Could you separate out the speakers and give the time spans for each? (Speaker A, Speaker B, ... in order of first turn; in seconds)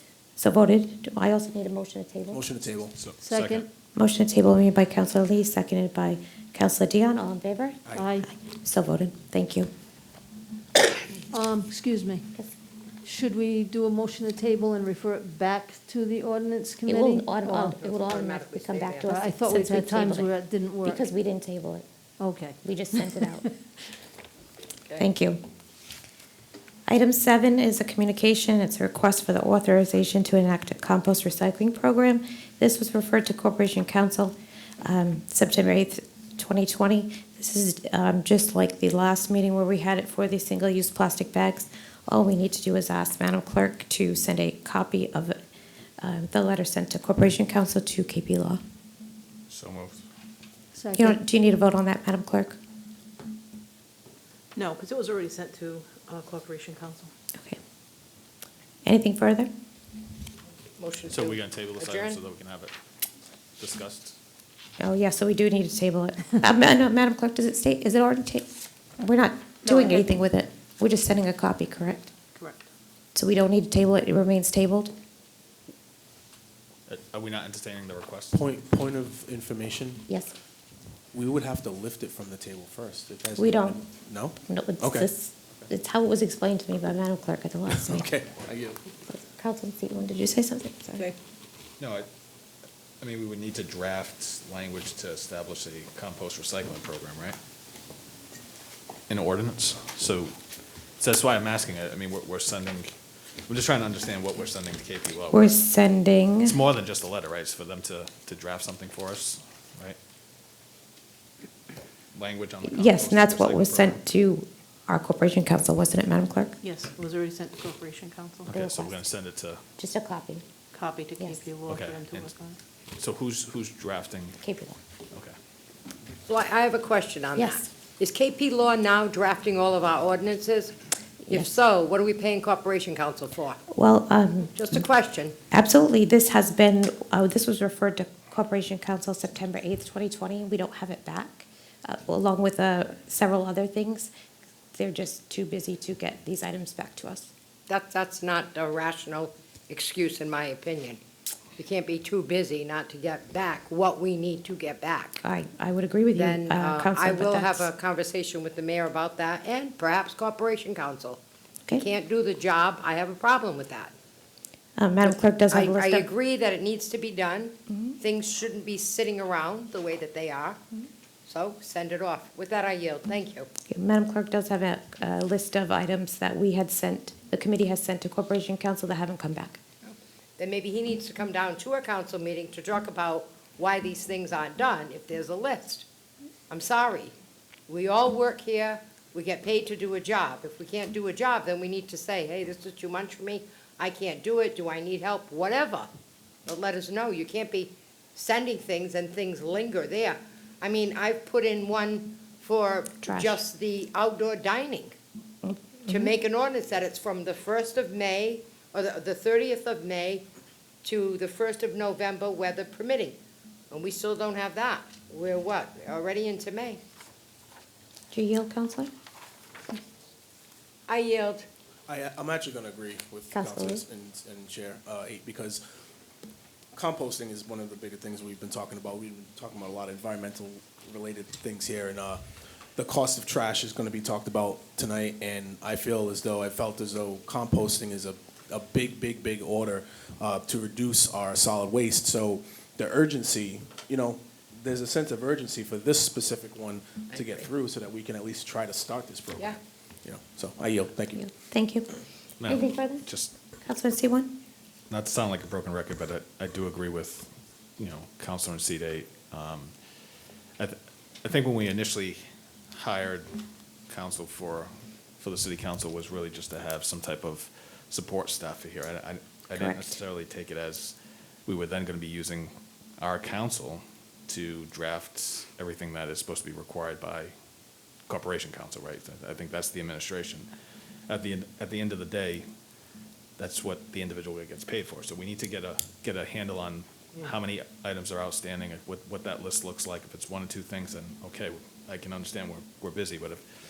Speaker A: 0.4-2.4, 3.9-9.7, 16.9-20.3, 20.8-21.9, 22.6-23.4, 25.0-25.4, 26.9-45.4, 46.0-48.6, 51.0-52.6, 58.8-59.5, 64.8-72.1, 73.1-74.9, 80.1-80.3, 83.4-83.8, 84.4-88.1, 89.1-91.1, 105.3-106.6, 112.6-116.5, 118.5-119.0, 119.8-120.4, 121.2-121.4, 124.4-124.8, 127.3-127.6, 133.7-134.5, 135.5-144.1, 144.7-147.3, 155.2-157.7, 164.8-166.1, 167.7-168.0, 173.7-179.6, 203.0-203.4, 205.4-206.1, 218.1-218.9, 223.3-223.8, 251.2-251.9, 252.4-253.1, 253.6-254.3, 269.5-270.0
Speaker B: 2.3-2.9, 78.3-80.0, 81.1-85.0, 88.0-88.8, 221.9-225.6, 226.7-232.2, 232.8-249.5, 250.0-251.2
Speaker C: 2.9-3.6, 49.5-50.0, 61.1-62.7, 63.6-64.2, 76.9-78.4, 91.8-92.1, 93.0-97.4, 99.1-100.3, 101.0-102.9, 103.5-105.5, 106.4-110.0, 112.1-114.0, 118.5-119.6, 121.7-122.3, 123.0-124.4, 252.4-253.3, 254.9-259.7, 260.6-262.2, 262.7-263.3, 263.9-277.3, 278.1-280.5, 281.1-282.5, 283.4-293.4
Speaker D: 3.2-3.7, 7.9-8.3, 11.3-12.3, 13.0-17.8, 19.1-21.1, 22.2-23.2, 50.7-51.2
Speaker E: 17.6-19.3, 60.8-62.2, 126.3-130.7, 131.3-133.6, 134.5-135.3, 147.7-151.0, 151.6-155.2, 156.2-161.2, 161.8-163.9, 165.0-170.6, 171.2-173.5, 179.8-185.8, 186.5-187.1, 187.7-195.9, 196.4-204.9, 205.9-210.2, 210.8-213.2, 213.7-216.8, 220.9-221.5, 247.1-247.5
Speaker F: 54.5-57.1, 116.6-118.5, 120.7-122.6